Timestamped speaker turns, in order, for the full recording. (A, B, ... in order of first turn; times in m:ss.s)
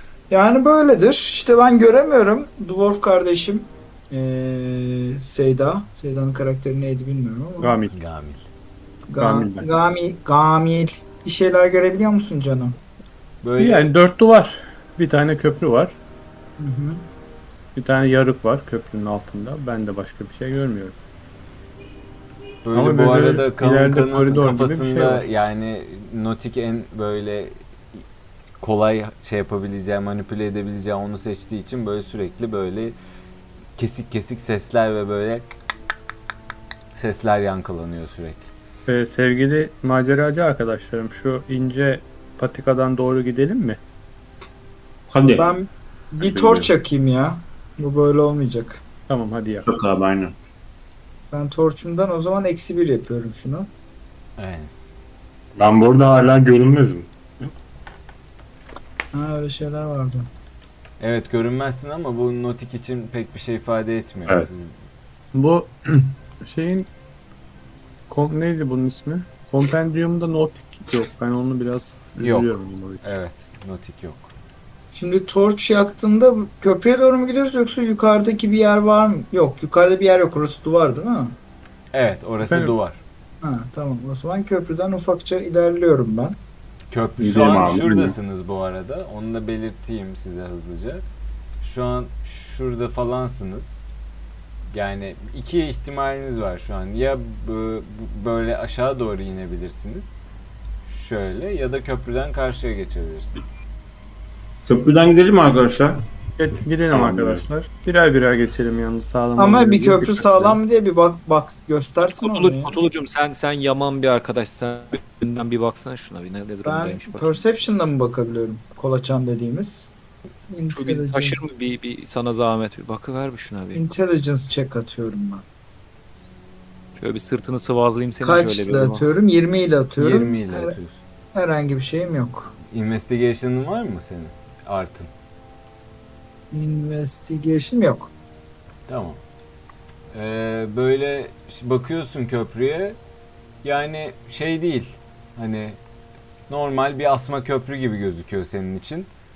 0:00.3-0:07.7 A
0:07.6-0:08.0 B
0:07.9-0:08.4 C
0:09.1-0:12.8 A
0:09.2-0:09.7 B
0:13.4-0:13.9 C
0:13.6-0:16.0 B
0:16.6-0:17.0 A
0:17.8-0:21.0 B
0:22.6-0:28.0 C
0:22.7-0:25.3 B
0:28.6-0:33.0 C
0:33.8-0:35.4 C
0:36.9-0:38.5 C
0:38.9-0:43.8 B
0:45.1-0:45.5 D
0:45.4-0:48.8 A
0:46.2-0:46.7 E
0:49.1-0:49.7 B
0:49.6-0:50.4 D
0:51.3-0:53.7 A
0:54.4-0:54.7 C
0:55.6-0:57.5 E
0:59.1-1:00.3 A
1:01.0-1:04.7 C
1:05.3-1:06.9 B
1:08.1-1:13.2 B
1:12.2-1:14.3 C
1:14.9-1:21.4 A
1:21.9-1:23.0 C
1:22.4-1:22.8 B
1:23.4-1:26.4 A
1:26.9-1:31.0 C
1:27.2-1:28.2 D
1:31.6-1:33.8 C
1:34.7-1:40.2 C
1:40.9-1:43.4 C
1:44.7-1:46.0 D
1:46.4-1:50.6 B
1:46.9-1:47.4 E
1:49.4-1:52.8 A
1:52.2-1:57.6 F
1:56.6-2:00.0 A
2:00.5-2:01.5 A
2:00.7-2:03.8 F
2:03.7-2:05.4 A
2:07.0-2:09.1 F
2:08.2-2:10.8 A
2:10.0-2:11.0 C
2:11.3-2:12.5 A
2:12.7-2:15.1 C
2:16.5-2:18.1 A
2:18.9-2:19.2 C
2:20.1-2:23.0 C
2:23.6-2:25.8 C
2:26.5-2:29.1 C